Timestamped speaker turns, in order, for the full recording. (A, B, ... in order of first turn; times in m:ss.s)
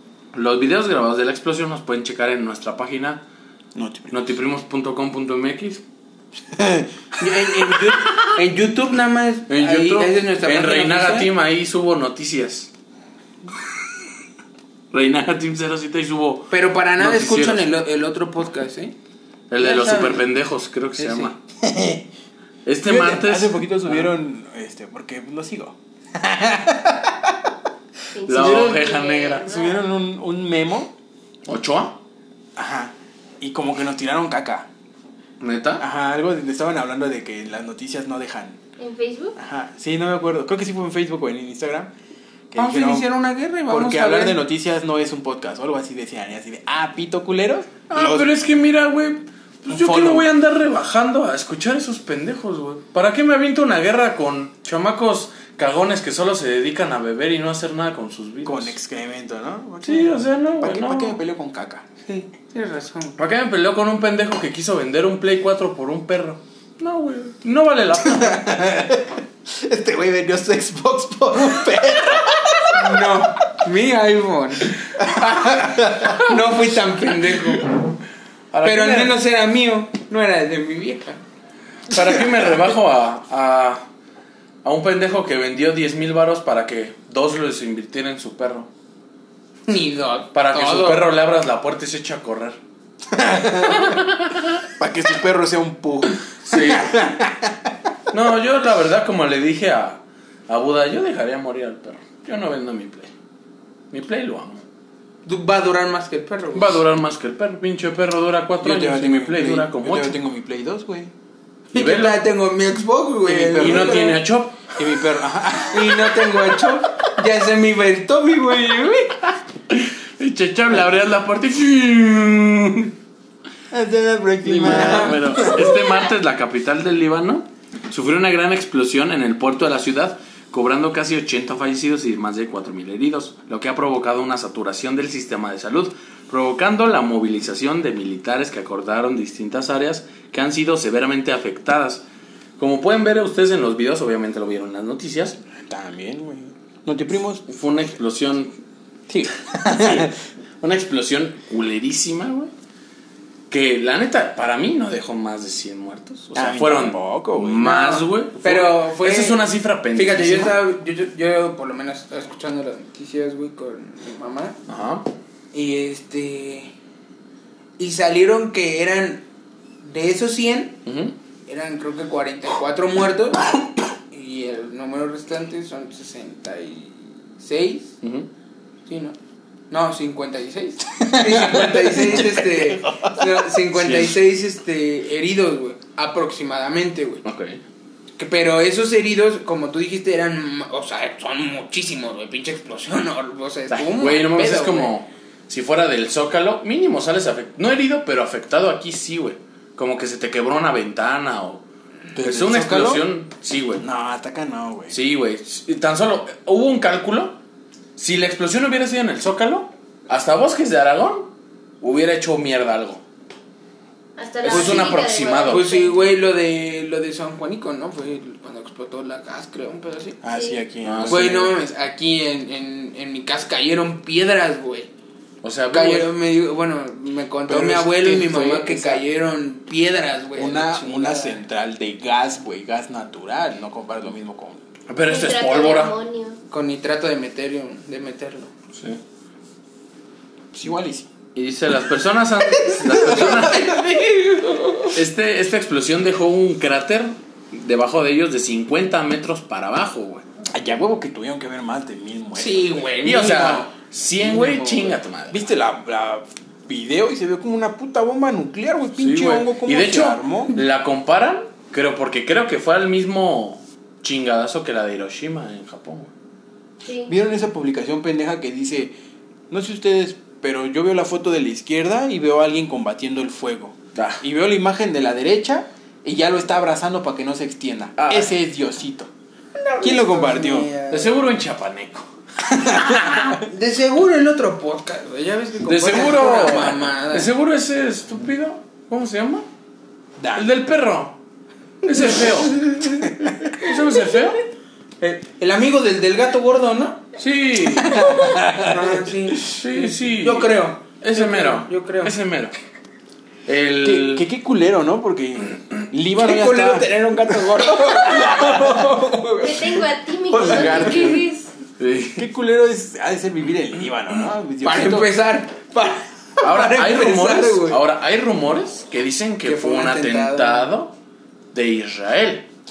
0:00.3-0:03.2 A
0:03.7-0:04.3 B
0:04.1-0:05.8 A
0:06.5-0:07.8 B
0:07.2-0:11.3 C
0:09.5-0:12.7 A
0:14.9-0:17.7 A
0:16.5-0:18.9 C
0:19.5-0:21.4 A
0:19.6-0:20.2 C
0:21.0-0:21.3 C
0:21.6-0:22.0 B
0:22.6-0:24.1 A
0:22.8-0:27.5 B
0:28.1-0:29.8 D
0:28.3-0:29.5 A
0:28.3-0:28.9 B
0:29.4-0:30.9 B
0:31.5-0:32.0 A
0:32.6-0:34.7 B
0:35.4-0:35.8 A
0:35.8-0:38.6 B
0:38.8-0:39.4 D
0:39.4-0:41.9 B
0:42.5-0:43.1 B
0:42.6-0:44.4 C
0:43.7-0:48.3 B
0:47.9-0:58.7 A
0:49.7-0:50.3 B
0:58.4-1:01.8 B
0:59.8-1:01.2 A
1:02.0-1:03.2 C
1:03.2-1:08.6 A
1:08.0-1:12.9 B
1:12.7-1:14.8 C
1:15.0-1:16.3 B
1:16.0-1:17.7 C
1:18.5-1:19.2 A
1:18.6-1:21.2 C
1:21.9-1:23.8 A
1:24.6-1:28.7 A
1:29.7-1:31.1 C
1:30.3-1:32.6 A
1:33.1-1:34.0 B
1:34.7-1:37.7 B
1:36.4-1:37.1 A
1:38.1-1:43.1 A
1:43.9-1:44.6 A
1:45.2-1:46.8 C
1:46.5-1:50.2 A
1:48.6-1:51.1 B
1:51.7-1:54.2 C
1:51.7-1:52.2 A
1:53.2-1:54.1 B
1:53.5-1:54.6 A
1:54.7-1:56.4 B
1:55.7-1:59.2 C
1:59.7-2:02.9 A
2:03.7-2:05.9 B
2:04.4-2:22.0 A
2:04.6-2:05.4 C
2:22.6-2:25.4 A
2:25.6-2:27.4 B
2:27.5-2:28.5 A
2:29.1-2:30.1 B
2:29.6-2:32.5 A
2:33.5-2:40.6 A
2:36.3-2:37.8 B
2:37.6-2:44.6 C
2:44.7-2:45.1 A
2:45.5-2:46.7 C
2:47.8-2:49.2 C
2:49.8-2:50.8 C
2:50.8-2:51.1 A
2:51.5-2:53.5 C
2:54.1-2:57.9 C
2:58.0-2:58.3 A
2:58.8-2:59.2 C
2:59.7-3:07.2 C
3:01.0-3:03.6 B
3:03.8-3:04.2 A
3:07.2-3:07.6 A
3:08.2-3:14.9 C
3:13.7-3:21.6 A
3:22.2-3:23.1 B
3:22.2-3:23.8 A
3:23.8-3:25.0 B
3:24.9-3:27.4 A
3:28.0-3:31.3 A
3:31.8-3:33.0 A
3:34.2-3:36.2 D
3:34.4-3:35.7 A
3:34.4-3:40.2 C
3:40.2-3:41.6 B
3:40.3-3:40.6 D
3:40.8-3:41.4 A
3:41.0-3:44.9 C
3:45.4-3:46.1 A
3:45.7-3:51.4 C
3:47.4-3:49.0 B
3:50.4-3:54.6 B
3:54.9-3:56.0 A
3:55.0-3:56.4 D
3:56.5-3:58.5 C
3:58.7-3:59.0 A
4:00.5-4:01.1 B
4:01.3-4:03.8 A
4:02.6-4:03.5 B
4:02.9-4:05.0 C
4:04.9-4:10.2 A
4:10.5-4:13.0 B
4:12.4-4:15.0 C
4:13.0-4:15.4 A
4:15.3-4:20.6 B
4:19.0-4:26.1 A
4:26.8-4:27.1 D
4:27.1-4:28.9 B
4:29.5-4:39.1 B
4:33.9-4:34.2 A
4:38.0-4:38.3 A
4:39.5-4:41.2 C
4:39.8-4:40.7 B
4:40.9-4:43.4 A
4:42.7-4:43.0 B
4:43.3-4:47.3 C
4:45.7-4:49.4 A
4:50.2-4:50.5 B
4:50.3-4:51.2 A
4:51.8-4:52.6 A
4:51.9-4:53.1 C
4:53.5-4:54.4 A
4:55.0-4:57.1 C
4:57.2-4:58.2 A
4:57.8-4:59.1 B
4:57.9-5:02.2 C
4:59.4-5:02.5 A
5:03.4-5:04.3 A
5:03.8-5:06.9 B
5:06.2-5:11.2 C
5:07.4-5:08.9 B
5:09.4-5:11.5 D
5:10.3-5:11.2 B
5:11.8-5:12.2 A
5:12.2-5:15.1 B
5:14.6-5:17.8 C
5:16.4-5:20.9 A
5:19.4-5:20.7 C
5:21.5-5:22.4 A